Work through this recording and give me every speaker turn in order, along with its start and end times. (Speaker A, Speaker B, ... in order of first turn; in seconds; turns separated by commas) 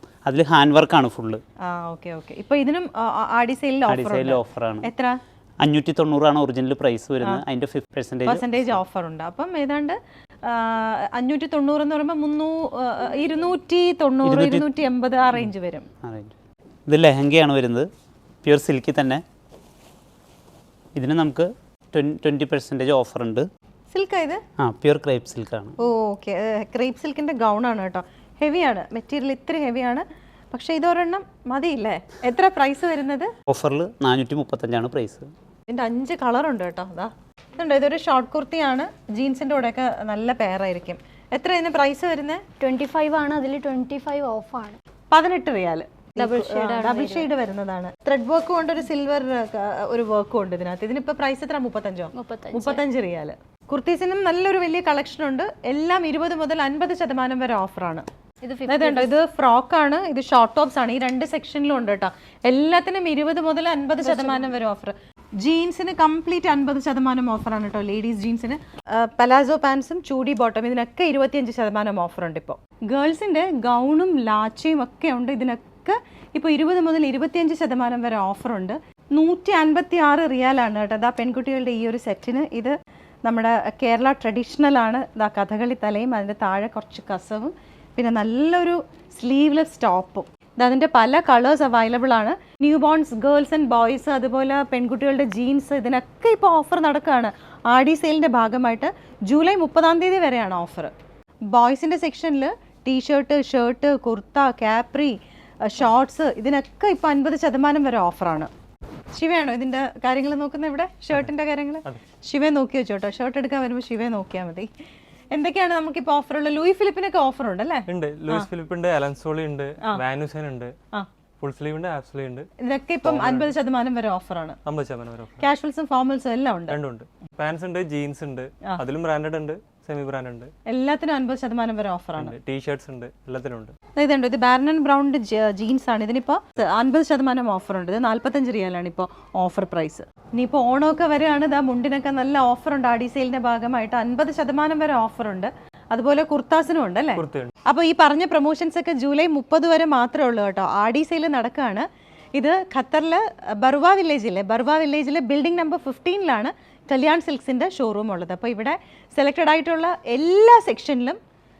Speaker A: 0.2-1.4, Speaker B: 1.6-5.2, Speaker A: 3.9-4.9, Speaker A: 5.6-8.8, Speaker B: 8.3-15.9, Speaker A: 14.2-14.7, Speaker A: 16.0-16.3, Speaker A: 16.9-17.9, Speaker A: 18.4-19.2, Speaker A: 20.9-23.4, Speaker B: 23.9-24.4, Speaker A: 24.6-25.8, Speaker B: 25.8-33.3, Speaker A: 33.5-35.3, Speaker B: 35.7-42.4, Speaker C: 42.6-44.8, Speaker B: 45.1-58.0, Speaker C: 46.2-47.3, Speaker C: 52.1-52.8, Speaker C: 58.4-59.1, Speaker B: 58.7-82.7, Speaker C: 64.0-64.5, Speaker B: 83.2-100.9, Speaker B: 101.5-108.5, Speaker B: 109.1-114.7, Speaker B: 115.3-118.5, Speaker D: 117.9-120.7, Speaker D: 121.4-122.5, Speaker B: 122.6-124.6, Speaker D: 123.0-123.5, Speaker D: 124.6-125.4, Speaker B: 125.4-126.8, Speaker D: 126.7-130.5, Speaker B: 130.7-132.3, Speaker D: 132.2-133.7, Speaker B: 134.0-151.8, Speaker D: 147.2-147.5, Speaker B: 152.4-161.2